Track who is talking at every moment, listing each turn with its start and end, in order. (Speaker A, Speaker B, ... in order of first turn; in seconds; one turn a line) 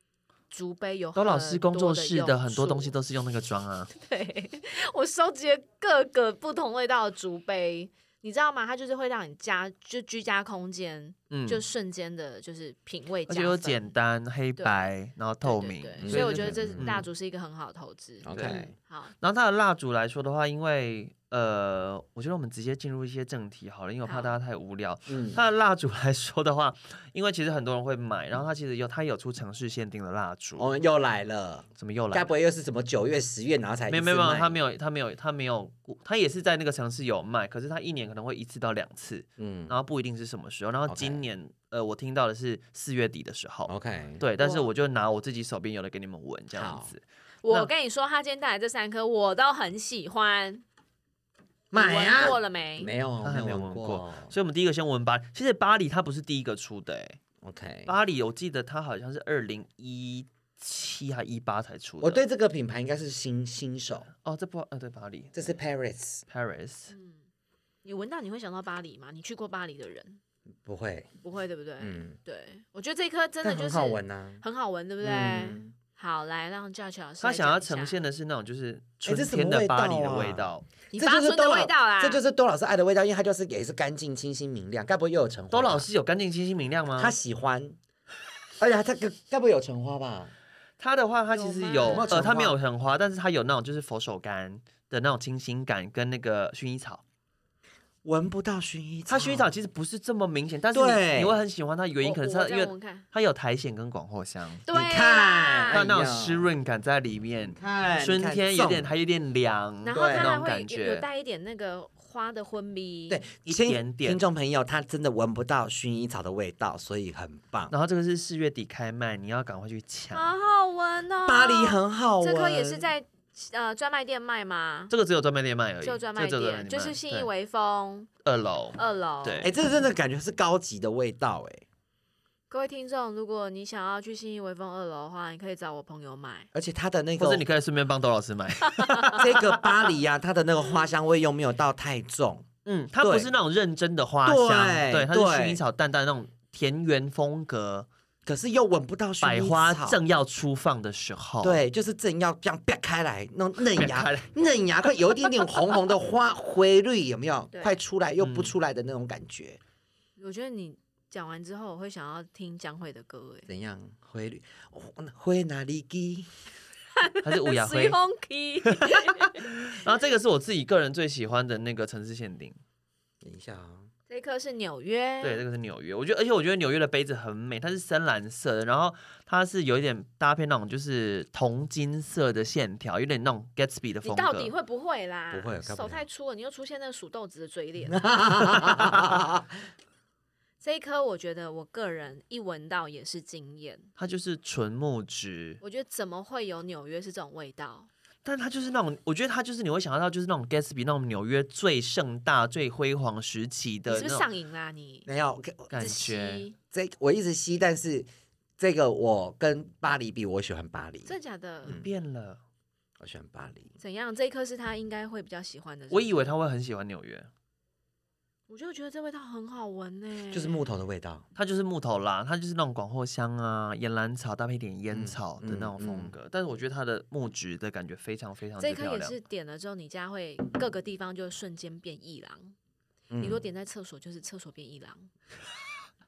Speaker A: 0.5-3.0
Speaker B: 1.2-3.9
Speaker A: 3.9-13.9
Speaker B: 11.3-11.6
Speaker B: 13.3-17.1
Speaker A: 14.6-14.9
Speaker A: 15.4-19.1
Speaker C: 16.0-16.9
Speaker C: 18.2-18.7
Speaker B: 18.3-18.6
Speaker B: 19.2-30.7
Speaker A: 24.1-24.3
Speaker C: 25.1-25.4
Speaker C: 30.6-34.6
Speaker B: 31.8-32.3
Speaker B: 33.9-47.7
Speaker C: 39.4-39.7
Speaker C: 40.9-41.2
Speaker C: 43.7-44.2
Speaker A: 44.4-44.7
Speaker C: 46.5-46.9
Speaker A: 47.4-50.6
Speaker C: 51.7-54.3
Speaker A: 51.7-52.9
Speaker B: 53.2-57.2
Speaker C: 57.4-58.0
Speaker B: 57.9-62.2
Speaker C: 62.0-64.1
Speaker B: 64.2-65.5
Speaker C: 65.3-66.2
Speaker B: 66.3-66.9
Speaker A: 66.9-67.2
Speaker A: 67.8-70.2
Speaker C: 70.6-71.1
Speaker A: 71.2-78.0
Speaker C: 71.8-72.2
Speaker C: 73.4-74.4
Speaker C: 75.0-75.7
Speaker B: 77.2-80.7
Speaker C: 79.0-85.9
Speaker A: 80.9-82.2
Speaker B: 85.5-87.2
Speaker C: 87.0-87.8
Speaker C: 88.6-90.3
Speaker B: 90.8-97.0
Speaker A: 91.3-92.2
Speaker C: 91.8-92.6
Speaker C: 98.0-99.5
Speaker B: 99.1-104.6
Speaker C: 100.7-101.4
Speaker A: 102.0-103.1
Speaker A: 104.7-105.8
Speaker C: 104.7-106.5
Speaker B: 105.7-111.1
Speaker C: 107.5-108.9
Speaker A: 109.8-113.2
Speaker C: 109.9-110.4
Speaker C: 113.1-117.7
Speaker B: 113.5-114.2
Speaker B: 117.7-120.3
Speaker A: 120.1-124.9
Speaker C: 121.2-122.9
Speaker B: 124.9-127.3
Speaker A: 125.8-128.1
Speaker B: 128.2-129.5
Speaker A: 128.8-129.5
Speaker C: 129.4-131.7
Speaker A: 132.5-136.5
Speaker C: 136.5-137.4
Speaker B: 137.2-139.7
Speaker A: 138.7-139.2
Speaker C: 139.2-142.5
Speaker B: 142.7-147.9
Speaker C: 143.0-143.3
Speaker C: 144.2-145.6
Speaker C: 148.3-150.0
Speaker B: 149.2-151.6
Speaker C: 151.4-159.6
Speaker B: 153.7-154.3
Speaker A: 157.5-157.8
Speaker B: 158.2-158.5
Speaker A: 160.2-163.5
Speaker C: 163.5-166.3
Speaker A: 167.0-169.5
Speaker B: 167.2-168.0
Speaker B: 168.7-172.6
Speaker C: 173.2-173.9
Speaker A: 174.1-175.4
Speaker B: 175.2-184.5
Speaker A: 184.0-188.5
Speaker C: 185.3-186.0
Speaker C: 187.9-189.5
Speaker B: 188.6-189.1
Speaker A: 190.6-193.9
Speaker B: 194.0-195.6
Speaker A: 195.6-197.9
Speaker B: 198.2-204.3
Speaker A: 203.9-205.1
Speaker C: 205.1-205.7
Speaker B: 205.7-206.4
Speaker A: 205.7-206.6
Speaker C: 206.7-211.1
Speaker A: 211.1-211.8
Speaker C: 211.7-211.9
Speaker B: 211.7-212.4
Speaker C: 213.0-213.7
Speaker A: 213.8-216.3
Speaker B: 215.9-217.3
Speaker A: 218.5-220.6
Speaker C: 220.3-221.2
Speaker B: 221.4-229.2
Speaker C: 224.9-226.1
Speaker A: 228.6-232.5
Speaker C: 233.1-233.4
Speaker A: 233.2-235.1